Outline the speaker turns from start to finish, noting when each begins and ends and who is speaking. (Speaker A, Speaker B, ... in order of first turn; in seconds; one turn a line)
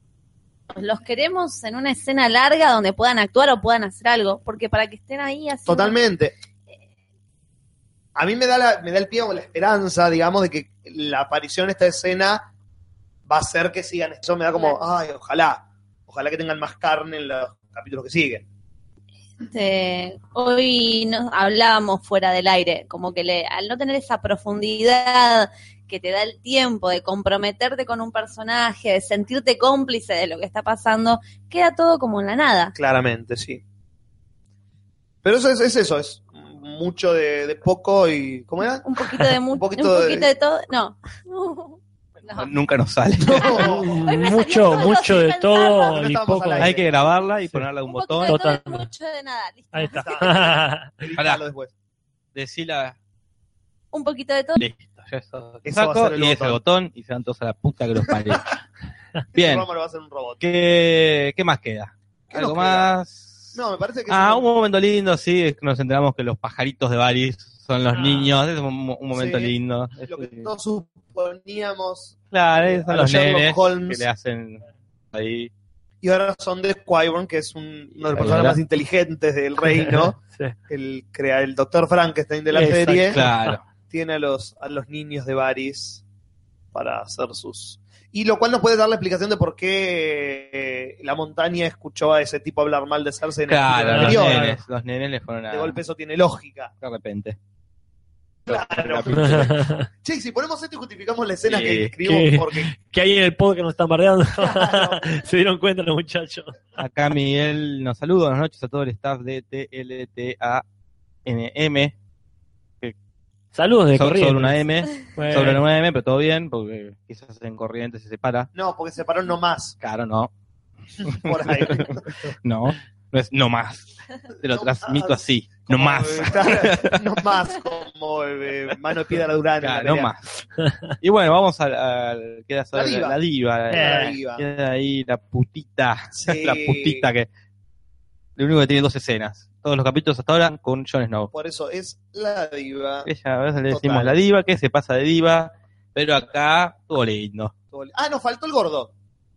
Speaker A: 0.7-6.0
Speaker B: 5.7-6.3
Speaker B: 8.2-12.5
Speaker B: 13.3-18.4
Speaker A: 19.4-32.7
Speaker B: 32.7-33.6
Speaker B: 35.2-38.9
Speaker A: 38.8-42.5
Speaker B: 39.5-40.3
Speaker C: 42.3-43.7
Speaker B: 43.2-44.0
Speaker A: 43.3-46.0
Speaker D: 43.6-46.7
Speaker B: 45.7-46.9
Speaker C: 46.6-48.4
Speaker A: 47.9-50.4
Speaker D: 48.2-48.9
Speaker D: 49.7-50.9
Speaker B: 49.9-51.7
Speaker C: 51.2-51.4
Speaker C: 52.3-53.0
Speaker A: 53.9-54.6
Speaker C: 54.6-58.6
Speaker B: 55.6-56.6
Speaker B: 59.3-60.4
Speaker C: 59.3-59.7
Speaker C: 60.4-70.5
Speaker B: 62.3-62.9
Speaker B: 63.5-64.5
Speaker D: 67.9-68.3
Speaker B: 69.1-69.5
Speaker B: 70.0-74.0
Speaker C: 72.3-75.5
Speaker B: 76.0-80.2
Speaker C: 78.0-78.6
Speaker D: 79.7-80.5
Speaker B: 80.7-83.2
Speaker D: 82.5-83.6
Speaker C: 83.1-83.6
Speaker B: 83.9-86.0
Speaker B: 86.7-94.5
Speaker C: 93.5-95.8
Speaker D: 93.8-94.6
Speaker B: 95.5-96.7
Speaker C: 96.8-97.4
Speaker C: 98.5-99.6
Speaker B: 98.5-102.7
Speaker D: 99.1-99.9
Speaker C: 101.5-101.9
Speaker D: 102.0-106.6
Speaker B: 104.4-105.0
Speaker C: 106.8-110.6
Speaker C: 111.2-111.9
Speaker D: 113.5-114.6
Speaker C: 113.9-118.5
Speaker D: 115.1-115.6
Speaker B: 118.5-119.8
Speaker C: 119.8-120.3
Speaker C: 121.0-127.0
Speaker B: 121.0-122.3
Speaker B: 124.5-130.1
Speaker C: 129.6-130.4
Speaker C: 131.0-137.3
Speaker B: 132.7-133.2
Speaker D: 133.7-134.2
Speaker B: 133.7-134.4
Speaker B: 136.1-137.1
Speaker C: 138.4-141.3
Speaker B: 141.3-143.1
Speaker C: 143.0-147.5
Speaker B: 143.7-144.1
Speaker B: 147.7-148.9